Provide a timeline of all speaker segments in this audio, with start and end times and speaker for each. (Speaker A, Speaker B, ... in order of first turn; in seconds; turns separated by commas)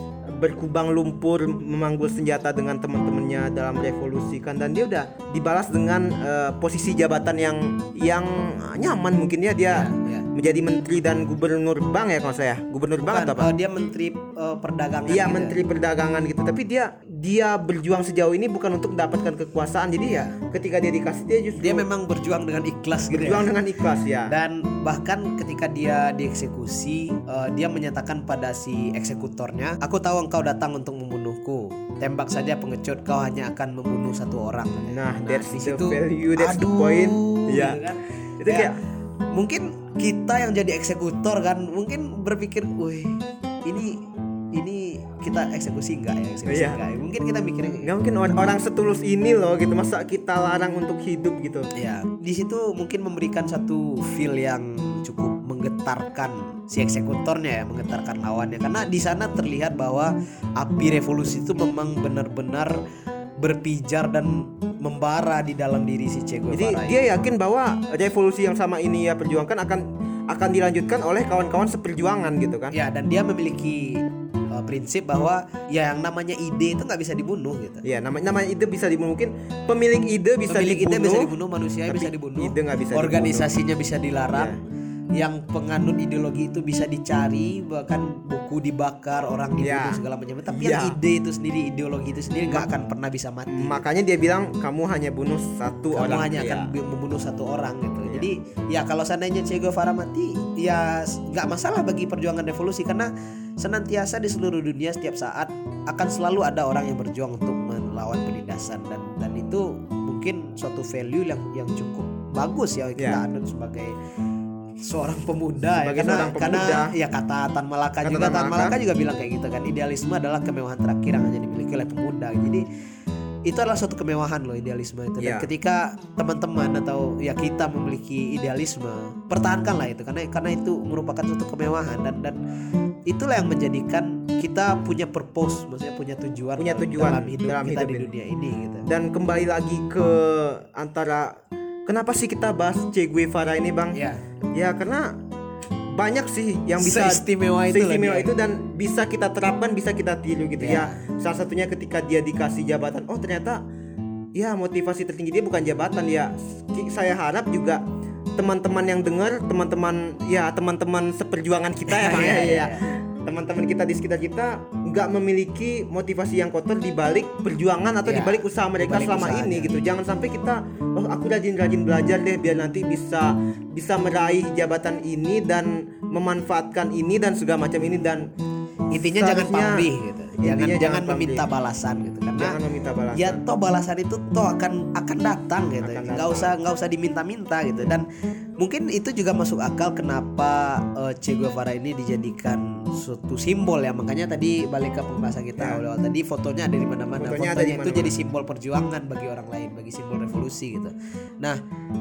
Speaker A: 0.3-13.5, Speaker B: 9.7-10.3, Speaker B: 13.0-15.6, Speaker A: 15.1-21.8, Speaker B: 20.1-20.3, Speaker B: 21.6-23.5, Speaker A: 23.1-24.3, Speaker B: 24.3-38.7, Speaker A: 34.8-37.8, Speaker A: 38.4-38.8, Speaker B: 39.3-44.0, Speaker B: 44.5-47.9, Speaker A: 46.5-46.8, Speaker A: 47.8-51.7, Speaker B: 51.7-62.8, Speaker B: 63.4-67.0, Speaker A: 66.5-72.7, Speaker B: 72.7-77.8, Speaker A: 77.8-81.3, Speaker B: 80.5-84.6, Speaker A: 81.9-83.5, Speaker B: 85.2-93.8, Speaker A: 89.6-91.0, Speaker A: 93.5-96.7, Speaker B: 95.9-114.0, Speaker B: 114.8-122.6, Speaker A: 115.8-116.9, Speaker A: 118.0-118.8, Speaker B: 123.5-132.4, Speaker A: 125.2-125.5, Speaker B: 133.1-138.9, Speaker A: 136.6-138.1, Speaker A: 138.8-141.3, Speaker A: 141.9-144.0, Speaker B: 143.9-144.2, Speaker A: 144.5-145.1, Speaker A: 145.9-153.6, Speaker B: 146.8-148.3, Speaker B: 150.6-151.0, Speaker A: 154.3-157.8, Speaker A: 158.4-178.2, Speaker B: 161.9-162.8, Speaker B: 168.0-169.8, Speaker B: 178.9-182.6, Speaker A: 178.9-179.9, Speaker A: 180.4-181.4, Speaker A: 182.3-183.4, Speaker B: 183.1-201.6, Speaker A: 185.8-186.5, Speaker A: 195.6-195.8, Speaker A: 197.1-198.1